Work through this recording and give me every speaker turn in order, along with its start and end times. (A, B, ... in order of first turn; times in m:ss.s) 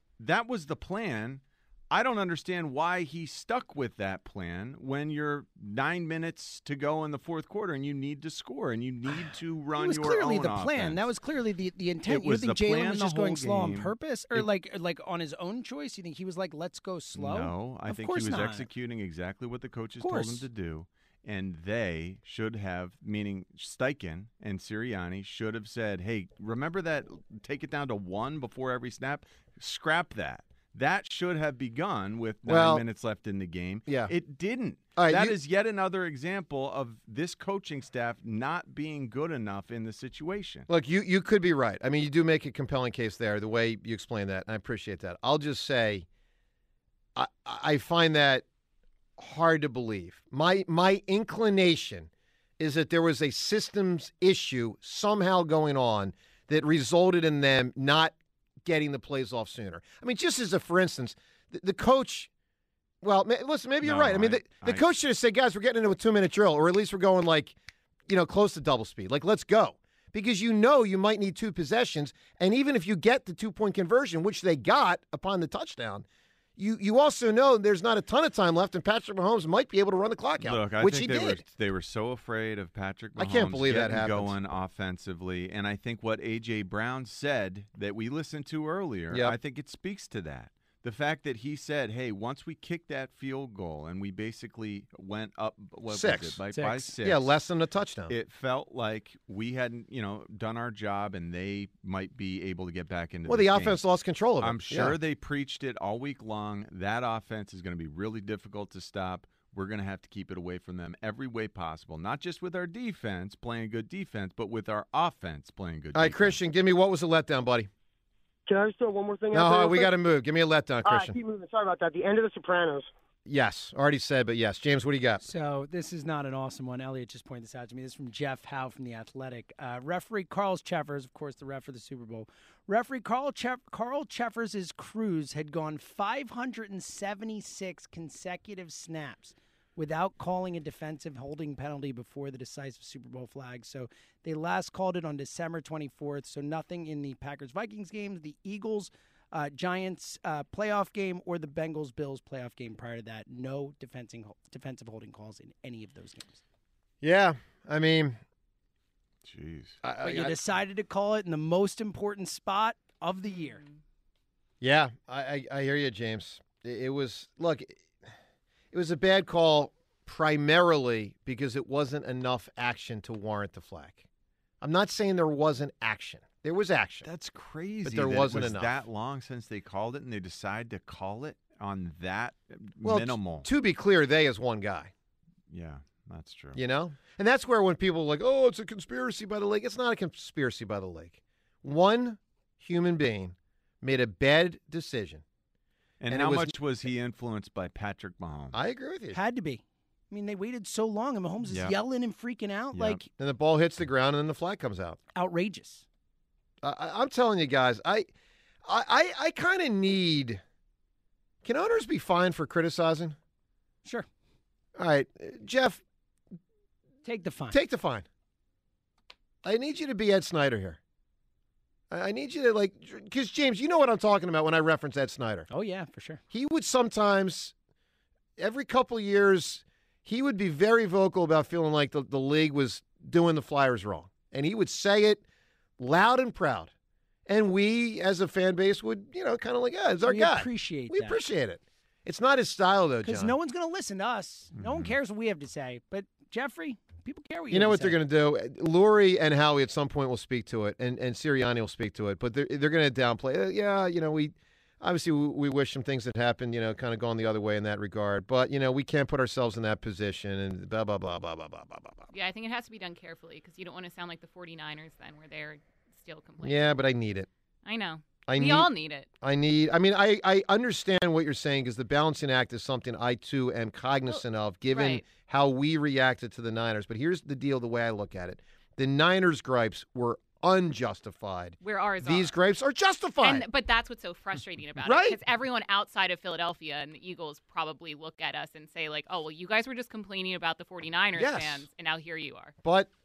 0:00.2-0:11.1 A
0:09.8-0:18.7 B
0:12.0-0:14.5 A
0:17.1-0:40.7 A
0:20.0-0:20.4 B
0:32.4-0:32.8 C
0:33.9-0:34.1 C
0:35.0-0:35.3 C
0:40.7-0:46.0 C
0:47.2-0:48.4 C
0:49.2-1:02.3 C
1:03.0-1:07.6 C
1:03.8-1:04.8 A
1:08.1-1:16.0 C
1:16.6-1:21.4 C
1:20.4-1:37.3 A
1:23.2-1:24.3 C
1:35.9-1:36.4 C
1:36.5-1:36.9 B
1:37.0-1:38.1 C
1:38.1-1:43.8 A
1:43.3-1:44.9 C
1:44.4-1:56.4 A
1:55.9-1:57.7 C
1:58.5-1:59.9 D
1:59.3-2:01.2 C
2:00.8-2:02.9 D
2:03.2-2:05.2 C
2:05.2-2:36.4 B
2:37.0-2:38.2 C
2:39.2-2:39.8 A
2:39.8-2:40.3 C
2:40.0-2:43.6 B
2:43.4-2:43.7 E
2:44.6-2:47.8 C
2:48.7-2:54.0 C
2:54.6-2:57.1 C
2:57.0-3:03.4 A
2:57.8-2:58.7 C
3:02.8-3:04.9 C
3:05.5-3:06.6 A
3:06.5-3:15.2 C
3:16.0-3:18.6 A
3:16.1-3:16.5 C
3:18.5-3:19.2 C
3:19.1-3:23.0 B
3:21.5-3:21.7 A
3:22.7-3:23.0 A
3:23.2-3:25.0 C
3:25.1-3:25.8 B
3:26.6-3:28.1 C
3:28.6-3:30.4 C
3:31.4-3:33.2 C
3:34.8-3:35.8 C
3:37.0-3:37.6 B
3:37.5-3:38.0 C
3:39.4-3:40.8 C
3:41.9-3:45.5 C
3:45.5-3:46.2 B
3:46.3-3:47.5 C
3:48.4-3:55.2 C
3:55.8-3:56.7 C
3:57.3-4:03.3 C
4:00.0-4:01.2 B
4:03.0-4:08.0 B
4:04.6-4:04.9 A
4:07.5-4:22.0 C
4:22.1-4:26.8 E
4:26.4-4:27.3 C
4:27.6-4:29.0 E
4:28.3-4:28.7 C
4:29.2-4:43.4 C
4:34.1-4:35.0 E
4:41.6-4:42.3 E
4:43.2-4:52.5 E
4:44.8-4:45.2 C
4:51.2-4:51.6 C
4:52.6-4:52.9 C